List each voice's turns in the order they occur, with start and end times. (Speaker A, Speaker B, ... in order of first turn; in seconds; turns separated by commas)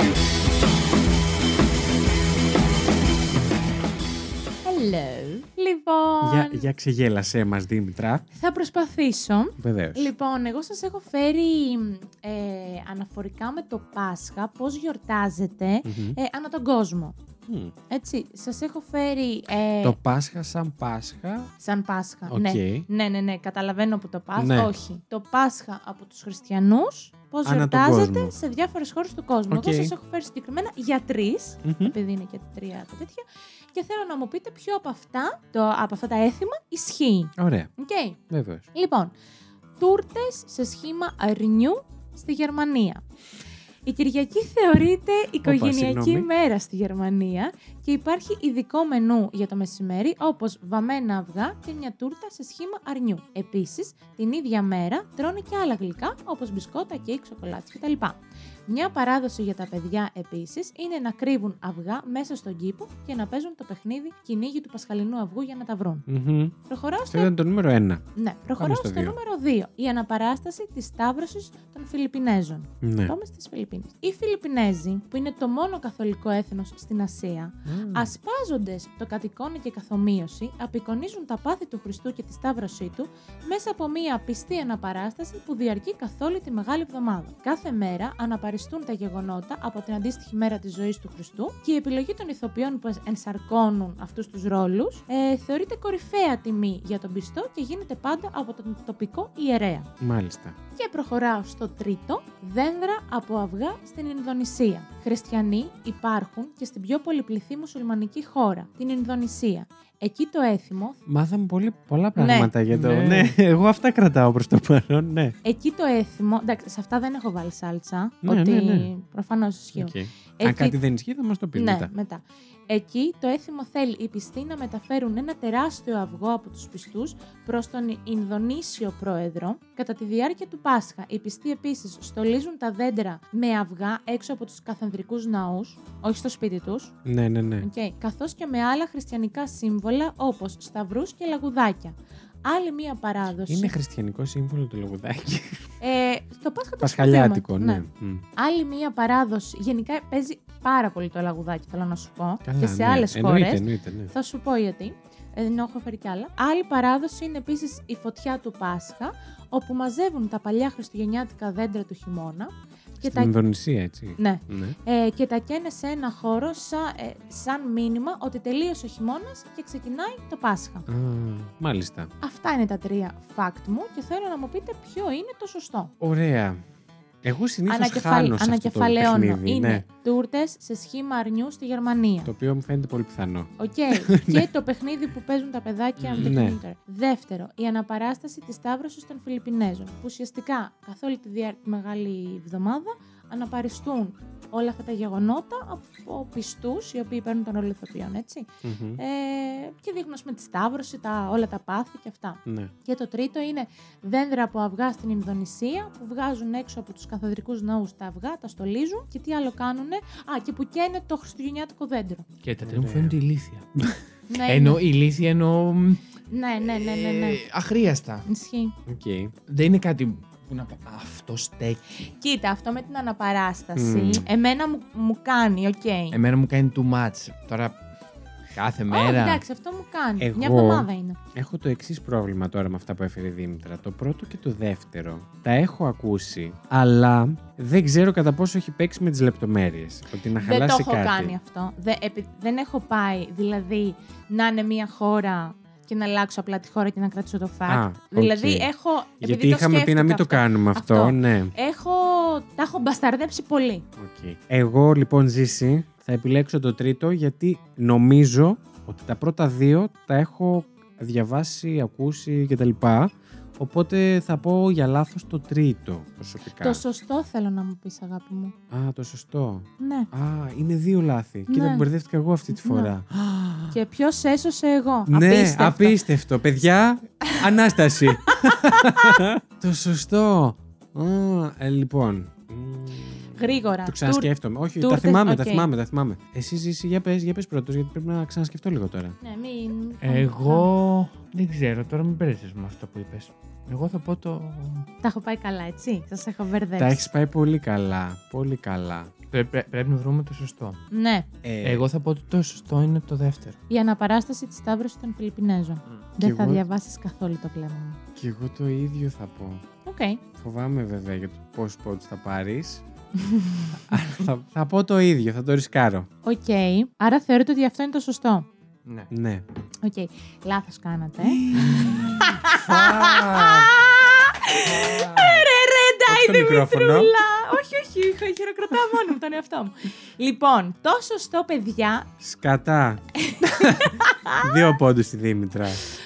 Speaker A: 4.7-6.7, Speaker B: 6.2-8.2, Speaker A: 8.3-17.2, Speaker B: 9.6-10.1, Speaker B: 15.8-16.2, Speaker B: 17.5-17.7, Speaker A: 17.9-20.0, Speaker B: 19.8-21.5, Speaker A: 21.6-38.2, Speaker B: 22.3-22.9, Speaker B: 24.4-24.7, Speaker B: 27.5-28.3, Speaker B: 29.5-29.9, Speaker B: 31.6-31.9, Speaker B: 37.4-37.7, Speaker B: 38.3-38.7, Speaker A: 38.7-39.1, Speaker A: 39.8-43.0, Speaker A: 43.9-66.1, Speaker B: 45.4-46.3, Speaker B: 66.1-68.1, Speaker A: 66.7-67.3, Speaker A: 68.2-99.9, Speaker B: 68.6-69.2, Speaker B: 72.8-73.2, Speaker B: 77.7-78.1, Speaker B: 100.0-100.6, Speaker A: 100.8-111.0, Speaker B: 111.1-115.3, Speaker A: 112.2-112.5, Speaker C: 112.7-113.3, Speaker A: 115.4-120.8, Speaker B: 118.2-118.9, Speaker B: 119.8-121.9, Speaker A: 121.5-136.9, Speaker B: 137.0-137.7, Speaker A: 137.6-143.7, Speaker B: 143.5-145.7, Speaker A: 145.8-147.8, Speaker B: 146.8-148.2, Speaker A: 148.4-163.3, Speaker B: 152.4-154.1, Speaker B: 163.0-164.8, Speaker A: 164.2-170.9, Speaker B: 170.9-172.1, Speaker A: 172.2-175.9, Speaker B: 176.0-176.6, Speaker B: 177.2-179.8, Speaker A: 177.7-182.3, Speaker B: 182.3-184.5, Speaker A: 183.6-212.3, Speaker C: 186.0-186.3, Speaker B: 186.2-186.6, Speaker B: 198.6-199.0, Speaker B: 202.5-202.7, Speaker C: 212.4-213.7, Speaker B: 212.6-213.2, Speaker A: 214.3-214.8, Speaker C: 214.5-216.0, Speaker A: 216.3-217.4, Speaker C: 216.7-218.2, Speaker A: 218.3-218.8, Speaker B: 218.9-219.3, Speaker C: 219.5-221.8, Speaker A: 222.1-226.2, Speaker B: 223.8-224.3, Speaker C: 226.1-227.8, Speaker C: 228.5-229.4, Speaker A: 228.9-231.2, Speaker B: 230.2-241.4, Speaker A: 240.4-253.9, Speaker B: 247.7-251.5, Speaker B: 254.0-266.8, Speaker A: 266.6-268.6, Speaker B: 268.7-273.8, Speaker A: 269.8-270.1, Speaker A: 271.5-271.9, Speaker A: 272.5-272.9, Speaker A: 273.7-276.0, Speaker B: 275.1-289.2, Speaker A: 278.3-279.2, Speaker A: 283.4-285.7, Speaker A: 289.2-290.7, Speaker C: 290.0-294.9, Speaker A: 295.0-297.1, Speaker B: 296.8-299.1, Speaker C: 299.3-300.8, Speaker A: 300.9-301.3, Speaker B: 301.4-301.8, Speaker C: 301.6-303.6, Speaker A: 303.7-308.0, Speaker B: 306.2-306.6, Speaker B: 308.2-309.6, Speaker A: 309.9-310.2, Speaker B: 310.4-312.8, Speaker A: 313.2-313.8, Speaker B: 313.9-316.1, Speaker A: 316.2-318.5, Speaker C: 318.9-319.1, Speaker B: 319.1-319.4, Speaker A: 319.8-332.1, Speaker C: 321.4-322.2, Speaker B: 321.5-323.8, Speaker B: 324.9-325.3, Speaker B: 326.1-327.1, Speaker B: 332.2-335.8, Speaker A: 333.2-334.7